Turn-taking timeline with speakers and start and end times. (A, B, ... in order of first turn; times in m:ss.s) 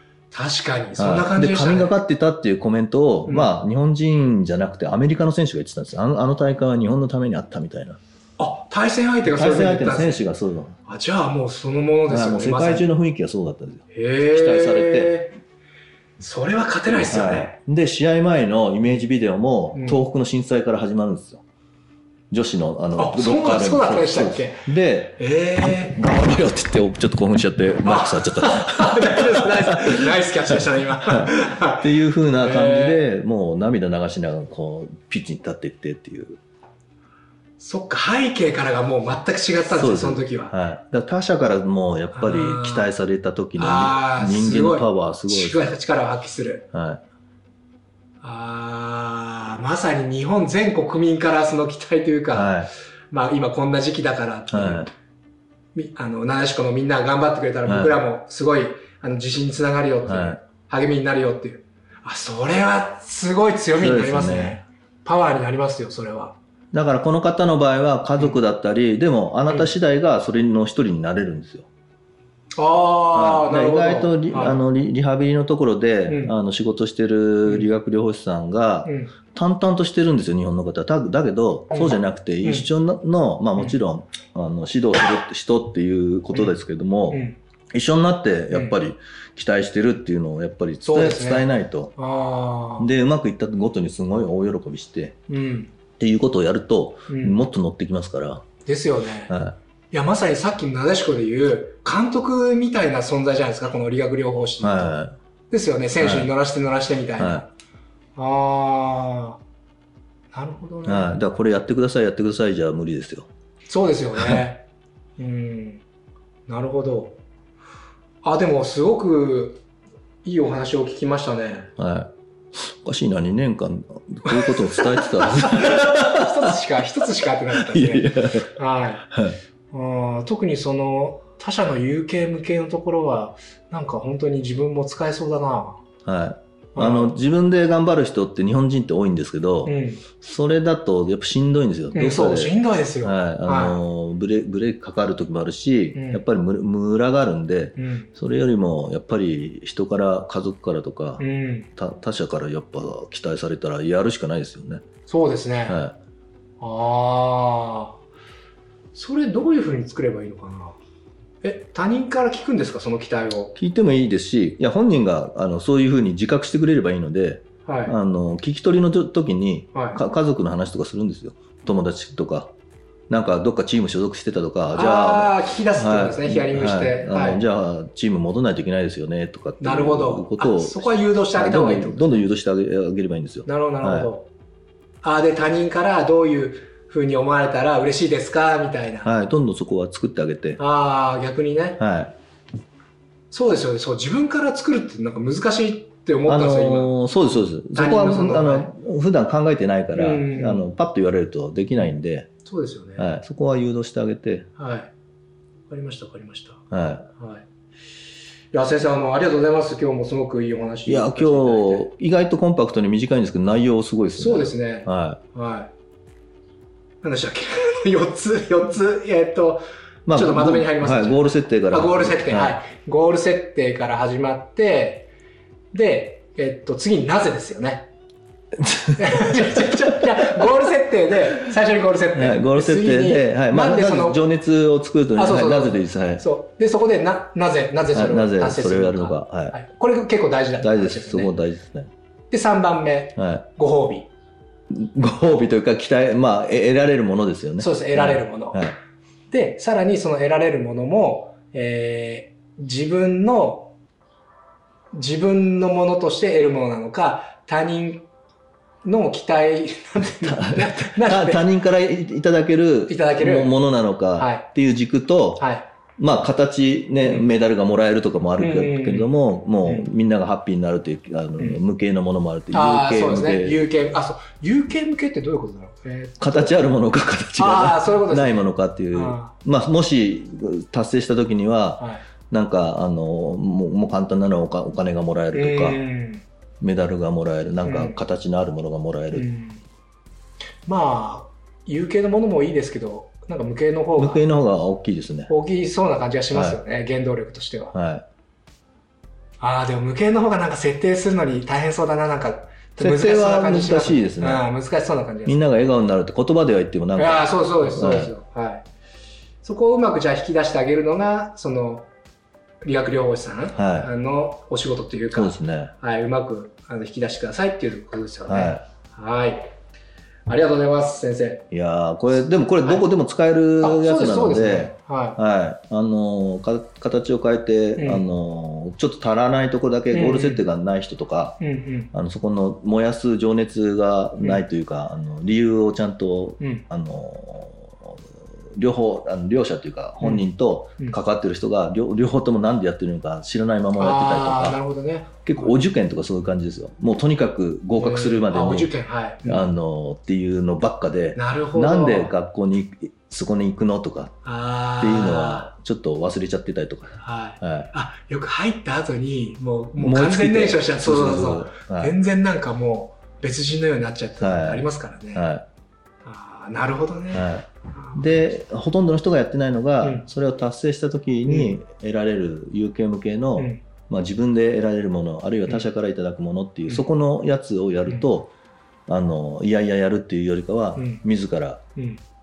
0:00.3-0:01.9 A
0:01.0-0:08.0 B
0:03.3-0:03.5 A
0:08.4-0:10.2 A
0:09.2-0:10.8 B
0:10.9-0:12.9 A
0:12.1-0:15.2 B
0:13.9-0:15.4 A
0:16.2-0:17.5 A
0:16.9-0:21.4 B
0:19.7-0:20.0 A
0:22.3-0:29.9 B
0:23.0-0:24.6 A
0:25.2-0:26.0 A
0:27.8-0:33.0 A
0:30.5-0:36.4 B
0:37.6-0:40.5 A
0:39.7-0:45.6 B
0:42.1-0:42.9 A
0:43.6-0:46.6 A
0:46.7-0:47.0 B
0:48.2-0:52.6 A
0:52.3-0:52.7 B
0:53.1-0:54.9 A
0:54.5-0:54.9 B
0:55.7-1:06.4 A
0:57.6-0:58.0 B
1:00.0-1:00.4 B
1:03.7-1:04.6 B
1:06.7-1:11.7 B
1:12.6-1:14.6 A
1:13.1-1:31.9 B
1:16.1-1:16.3 A
1:17.4-1:17.7 A
1:18.8-1:19.1 A
1:21.7-1:22.7 A
1:27.1-1:27.4 A
1:30.8-1:32.9 A
1:32.8-1:35.2 B
1:35.3-1:35.7 A
1:36.0-1:38.5 B
1:37.1-1:37.4 A
1:38.6-1:39.3 A
1:39.3-1:39.6 B
1:39.9-1:44.9 A
1:44.6-1:45.1 B
1:45.5-1:47.5 A
1:46.0-1:46.3 B
1:47.2-1:47.4 B
1:48.2-1:49.4 A
1:50.3-1:51.2 A
1:50.8-1:53.3 B
1:53.7-1:54.6 A
1:54.2-1:54.4 B
1:55.2-1:55.8 A
1:56.5-1:57.2 A
1:58.2-1:59.6 A
2:00.2-2:01.7 A
2:01.8-2:06.5 B
2:04.3-2:09.0 A
2:07.5-2:08.5 B
2:09.1-2:09.4 B
2:09.7-2:15.8 A
2:16.0-2:31.2 B
2:16.7-2:17.2 A
2:19.6-2:20.0 A
2:21.9-2:23.8 A
2:25.9-2:26.2 A
2:27.8-2:28.1 A
2:31.2-2:31.7 A
2:31.8-2:34.8 B
2:35.1-2:35.8 A
2:35.7-2:35.9 B
2:36.6-2:38.0 A
2:38.9-2:40.8 A
2:41.4-2:43.5 A
2:43.6-2:52.5 B
2:47.6-2:48.0 A
2:49.7-2:50.0 A
2:53.1-3:04.1 B
2:54.7-2:57.4 A
2:59.6-3:02.2 A
3:03.4-3:04.3 A
3:05.0-3:09.1 A
3:09.0-3:10.6 B
3:10.6-3:11.8 A
3:11.8-3:12.1 B
3:13.3-3:16.9 A
3:16.3-3:22.3 B
3:17.7-3:18.7 A
3:19.9-3:20.6 A
3:22.4-3:23.1 A
3:23.0-3:24.5 B
3:24.6-3:24.9 A
3:25.7-3:26.6 A
3:26.7-3:27.1 B
3:27.2-3:27.4 A
3:28.5-3:31.9 A
3:30.9-3:35.2 B
3:34.2-3:35.7 A
3:37.0-3:45.1 A
3:40.0-3:42.6 B
3:45.7-3:47.9 A
3:48.6-3:49.6 B
3:49.0-3:54.2 A
3:52.1-3:56.2 B
3:55.2-4:01.3 A
3:57.9-3:59.6 B
4:00.6-4:01.9 B
4:02.3-4:04.1 A
4:03.2-4:03.5 B
4:04.7-4:08.8 B
4:07.6-4:08.7 A
4:09.3-4:13.7 A
4:14.9-4:18.1 A
4:18.8-4:21.4 A
4:20.2-4:25.4 B
4:22.9-4:23.6 A
4:24.2-4:24.5 A
4:25.4-4:25.7 A
4:26.0-4:33.6 B
4:27.0-4:27.3 A
4:28.4-4:29.9 A
4:32.5-4:36.5 A
4:36.2-4:45.8 B
4:37.4-4:39.3 A
4:41.8-4:42.0 A
4:45.3-4:46.2 A
4:46.6-4:49.3 B
4:47.6-4:48.0 A
4:49.1-4:49.6 A
4:50.6-4:54.2 A
4:54.0-4:55.3 B
4:55.3-4:57.7 A
4:56.3-4:56.6 B
4:57.7-4:58.0 B
4:59.4-5:05.4 A
5:02.8-5:04.4 B
5:05.2-5:08.1 B
5:07.0-5:08.6 A
5:09.4-5:11.9 A
5:12.6-5:19.5 A
5:13.5-5:13.9 B
5:15.1-5:15.7 B
5:18.3-5:18.6 B
5:20.3-5:21.4 A
5:21.5-5:31.4 B
5:23.6-5:25.2 A
5:27.8-5:28.0 A
5:29.9-5:30.4 A
5:31.4-5:31.9 A
5:31.9-5:37.9 B
5:36.4-5:36.6 A
5:38.6-5:44.6 B
5:40.0-5:40.2 A
5:43.8-5:45.6 A
5:45.2-5:48.7 B
5:47.8-5:49.5 A
5:49.2-5:54.1 B
5:51.2-5:52.1 A
5:54.2-5:55.5 A
5:54.8-5:57.7 B
5:57.0-6:05.3 A
5:59.8-6:01.9 B
6:04.2-6:05.4 B
6:06.0-6:08.3 A
6:07.1-6:18.3 B
6:09.8-6:10.1 A
6:11.2-6:11.5 A
6:13.4-6:13.6 A
6:18.9-6:21.6 B
6:20.8-6:21.0 A
6:21.8-6:22.0 A